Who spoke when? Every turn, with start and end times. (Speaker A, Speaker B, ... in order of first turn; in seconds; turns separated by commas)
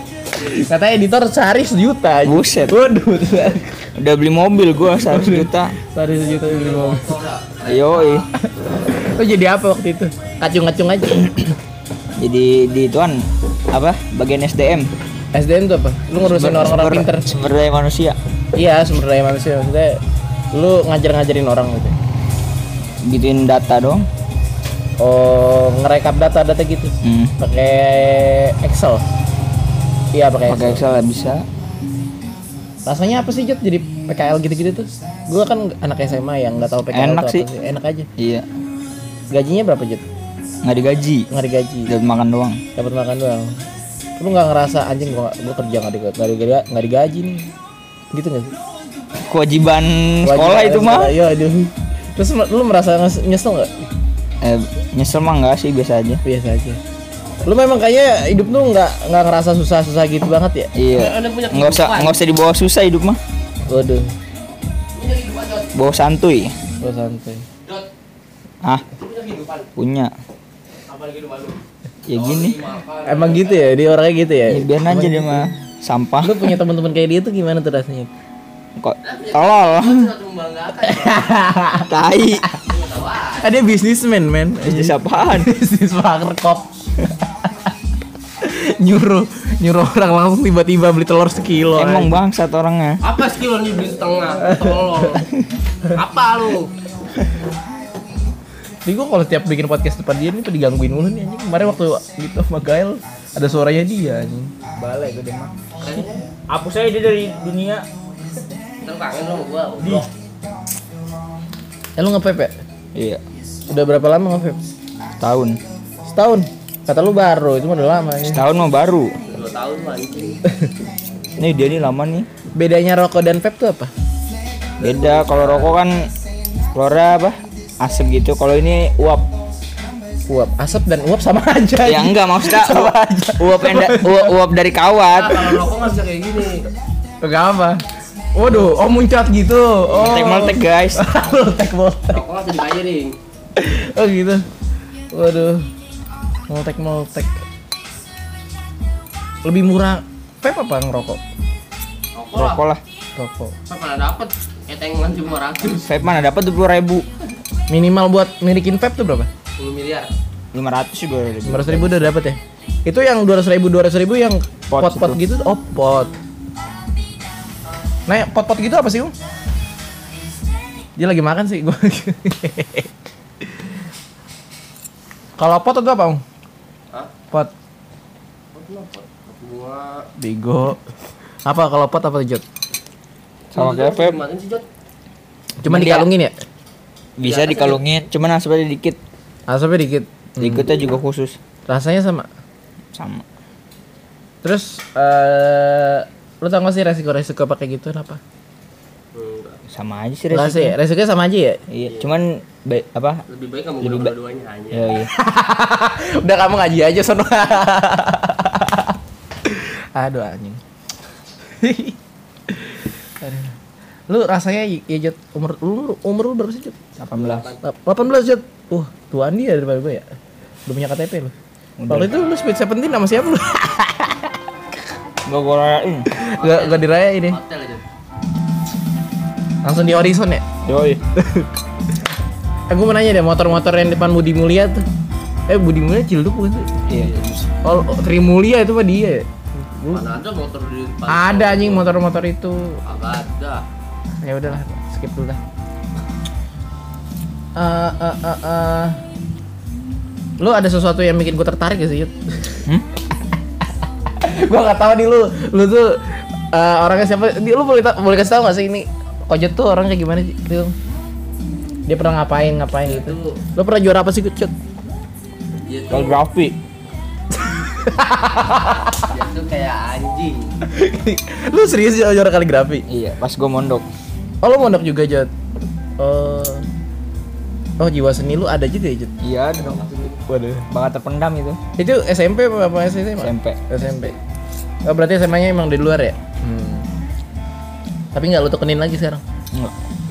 Speaker A: 0.3-3.9, Speaker B: 2.2-2.8, Speaker B: 4.0-5.7, Speaker A: 5.0-7.2, Speaker C: 6.1-8.2, Speaker B: 7.6-8.3, Speaker A: 8.4-11.5, Speaker B: 12.2-14.9, Speaker A: 15.3-17.4, Speaker B: 16.3-18.2, Speaker A: 18.6-20.0, Speaker A: 20.5-21.9, Speaker B: 23.0-24.1, Speaker A: 25.0-29.0, Speaker B: 27.0-27.3, Speaker A: 30.1-30.8, Speaker B: 30.5-31.4, Speaker A: 32.9-38.1, Speaker B: 36.9-37.5, Speaker B: 38.2-38.5, Speaker A: 39.3-40.0, Speaker B: 40.6-41.3, Speaker A: 41.3-41.9, Speaker B: 41.9-42.6, Speaker A: 42.8-43.6, Speaker A: 44.2-47.5, Speaker A: 48.1-48.5, Speaker B: 49.2-51.1, Speaker A: 50.2-53.9, Speaker B: 54.4-56.2, Speaker A: 56.2-56.8, Speaker A: 57.5-60.7, Speaker B: 60.8-63.2, Speaker C: 60.9-62.2, Speaker A: 63.7-64.1, Speaker C: 64.9-65.8, Speaker B: 65.8-66.6, Speaker A: 66.8-67.5, Speaker C: 68.9-69.7, Speaker B: 69.8-70.1, Speaker C: 70.9-73.7, Speaker B: 72.1-72.6, Speaker A: 73.0-75.5, Speaker B: 74.5-76.5, Speaker A: 76.2-78.1, Speaker B: 78.8-80.1, Speaker C: 79.0-81.4, Speaker A: 80.9-81.9, Speaker B: 81.9-82.4, Speaker C: 82.6-83.5, Speaker A: 83.4-86.7, Speaker B: 84.6-85.5, Speaker A: 87.5-87.7, Speaker A: 88.4-92.1, Speaker B: 91.8-93.0, Speaker C: 93.0-95.3, Speaker A: 94.4-94.9, Speaker C: 95.9-96.7, Speaker A: 98.8-104.5, Speaker B: 104.8-105.5, Speaker C: 105.8-106.3, Speaker B: 106.5-107.8, Speaker C: 108.8-110.1, Speaker B: 109.8-110.1, Speaker A: 112.0-112.5, Speaker B: 113.0-113.2, Speaker A: 113.7-114.6, Speaker B: 115.2-115.6, Speaker A: 116.1-118.4, Speaker B: 118.3-119.1, Speaker C: 119.3-120.4, Speaker B: 121.4-122.3, Speaker A: 122.6-123.9, Speaker C: 124.8-125.8, Speaker B: 124.8-126.1, Speaker B: 126.7-129.3, Speaker A: 130.3-134.3, Speaker B: 131.8-135.5, Speaker C: 135.1-136.7, Speaker A: 137.2-137.8, Speaker A: 138.3-142.2, Speaker B: 139.9-141.0, Speaker C: 142.1-143.2, Speaker A: 143.6-144.4, Speaker A: 145.1-145.7, Speaker A: 146.5-147.4, Speaker A: 149.4-151.2, Speaker C: 152.2-152.6, Speaker B: 152.3-152.8, Speaker A: 153.2-153.5, Speaker C: 153.7-155.9, Speaker B: 155.8-157.1, Speaker A: 157.7-159.3, Speaker C: 159.6-160.1, Speaker B: 160.5-162.1, Speaker A: 161.4-166.1, Speaker B: 164.7-165.2, Speaker A: 168.1-169.1, Speaker A: 171.0-172.9, Speaker A: 175.4-176.2, Speaker C: 178.5-180.1, Speaker A: 180.2-180.8, Speaker A: 181.4-182.4, Speaker C: 183.5-184.7, Speaker B: 183.5-184.2, Speaker A: 185.6-186.3, Speaker B: 185.7-186.1, Speaker B: 187.2-189.0, Speaker C: 187.2-188.0, Speaker A: 189.5-190.7, Speaker B: 190.4-191.4, Speaker A: 191.7-192.3, Speaker B: 192.9-193.2, Speaker A: 194.4-198.2, Speaker C: 199.1-199.6, Speaker B: 199.7-200.8, Speaker A: 200.3-201.6, Speaker B: 201.7-203.2, Speaker C: 203.3-204.9, Speaker B: 203.8-204.1, Speaker B: 204.7-205.1, Speaker A: 205.1-210.6, Speaker A: 211.6-212.0, Speaker A: 212.5-213.5, Speaker A: 214.1-216.8, Speaker B: 217.0-217.5, Speaker C: 217.1-217.6, Speaker A: 217.6-220.1, Speaker A: 220.7-221.3, Speaker B: 221.8-222.1, Speaker A: 221.9-224.3, Speaker B: 225.3-226.1, Speaker A: 226.2-227.4, Speaker C: 226.4-227.8, Speaker A: 229.6-230.4, Speaker B: 230.7-231.0, Speaker A: 231.2-231.5, Speaker A: 232.7-234.8, Speaker A: 235.5-236.7, Speaker B: 236.9-237.5, Speaker C: 237.0-237.2, Speaker A: 237.6-240.0, Speaker C: 239.9-241.9, Speaker A: 241.1-242.8, Speaker C: 242.8-243.6, Speaker A: 244.2-245.4, Speaker A: 247.6-249.0, Speaker A: 250.4-252.6, Speaker A: 254.2-260.8, Speaker A: 261.9-264.5, Speaker C: 262.9-263.4, Speaker C: 265.6-266.2, Speaker B: 265.9-266.5, Speaker A: 267.3-269.1, Speaker C: 269.1-270.5, Speaker A: 270.6-272.9, Speaker B: 272.9-273.9, Speaker A: 274.4-275.3, Speaker A: 276.0-276.6, Speaker A: 277.8-279.1, Speaker B: 279.2-279.9, Speaker C: 279.6-280.2, Speaker A: 280.3-280.7, Speaker B: 280.7-281.6, Speaker A: 281.8-284.2, Speaker B: 283.2-283.6, Speaker A: 284.9-286.9, Speaker A: 288.1-289.2